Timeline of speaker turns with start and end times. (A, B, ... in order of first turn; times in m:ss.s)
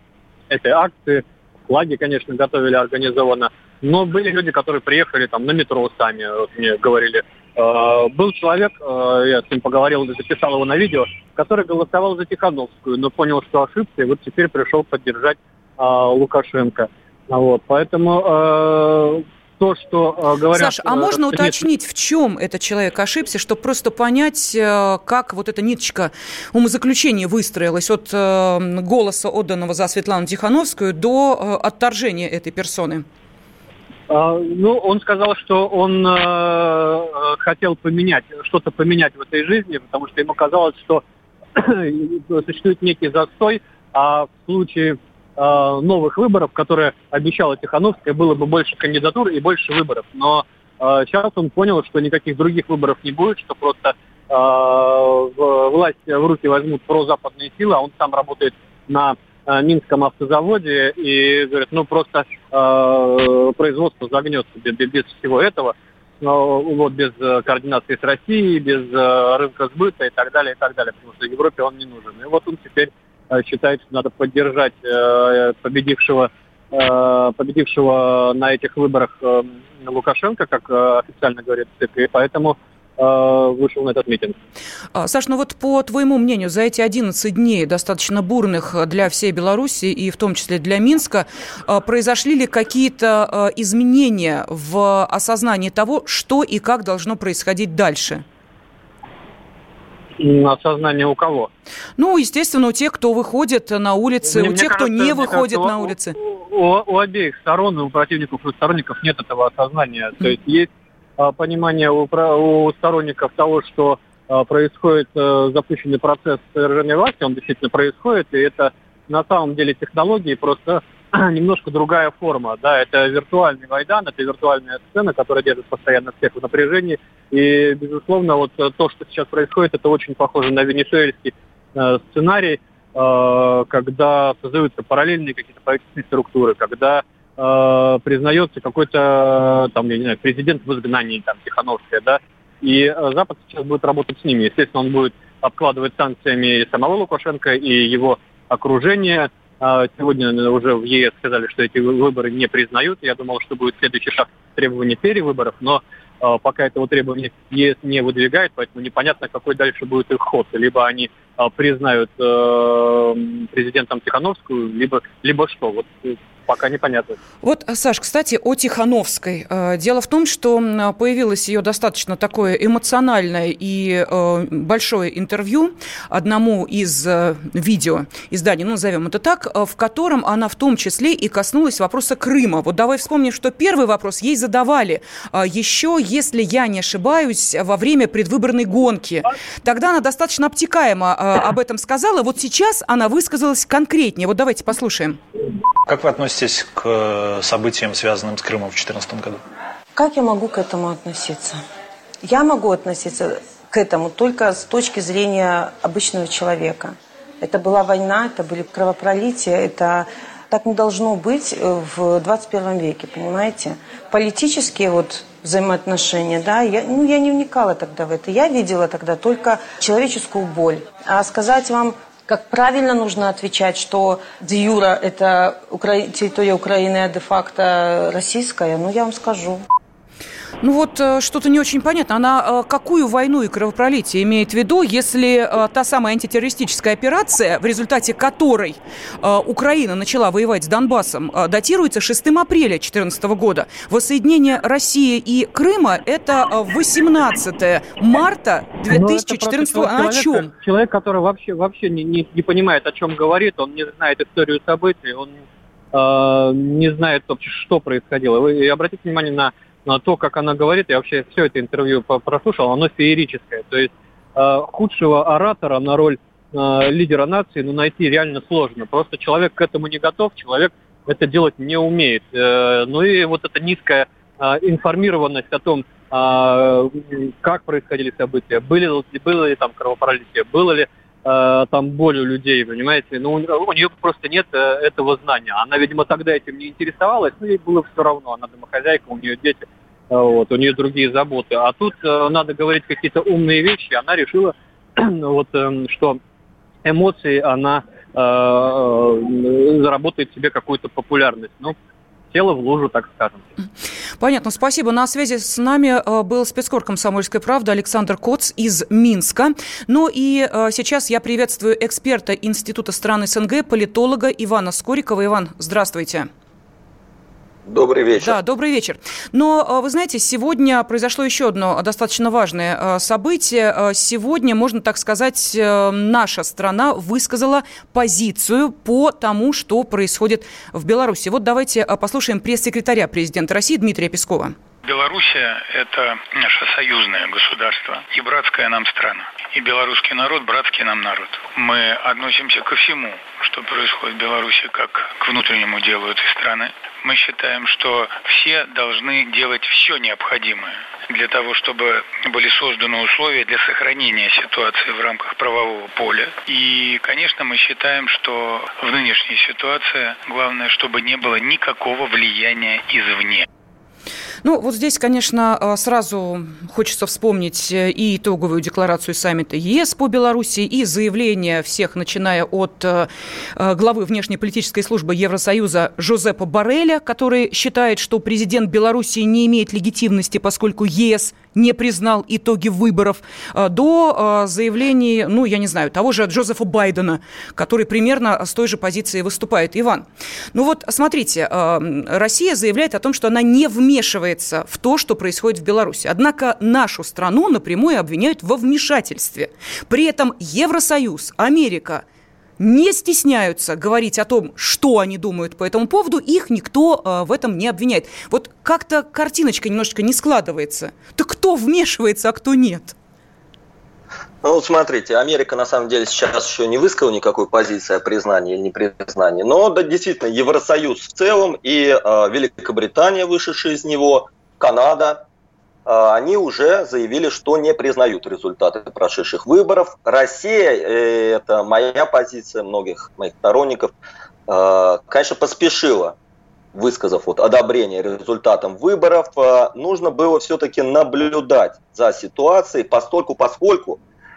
0:00.5-0:21.6 A
0:20.5-0:33.0 B
0:34.1-0:41.0 A
0:41.6-1:24.4 A
1:24.9-1:38.2 B
1:40.2-1:41.5 A
1:42.0-1:46.2 B
1:44.2-2:47.2 A
2:47.4-3:15.2 B
3:15.8-3:19.4 C
3:20.0-3:21.6 D
3:22.2-3:49.6 D
3:50.6-4:10.5 B
4:08.9-4:15.3 A
4:15.9-4:56.2 A
4:56.8-5:01.7 A
5:02.3-5:03.5 A
5:04.2-5:16.3 B
5:17.7-5:18.4 E
5:18.2-5:34.5 B
5:34.8-6:03.4 F
6:04.4-6:42.0 B
6:42.6-6:52.9 B
6:54.4-7:05.2 E
7:05.8-7:13.9 E
7:14.5-7:16.2 E
7:16.7-7:24.0 E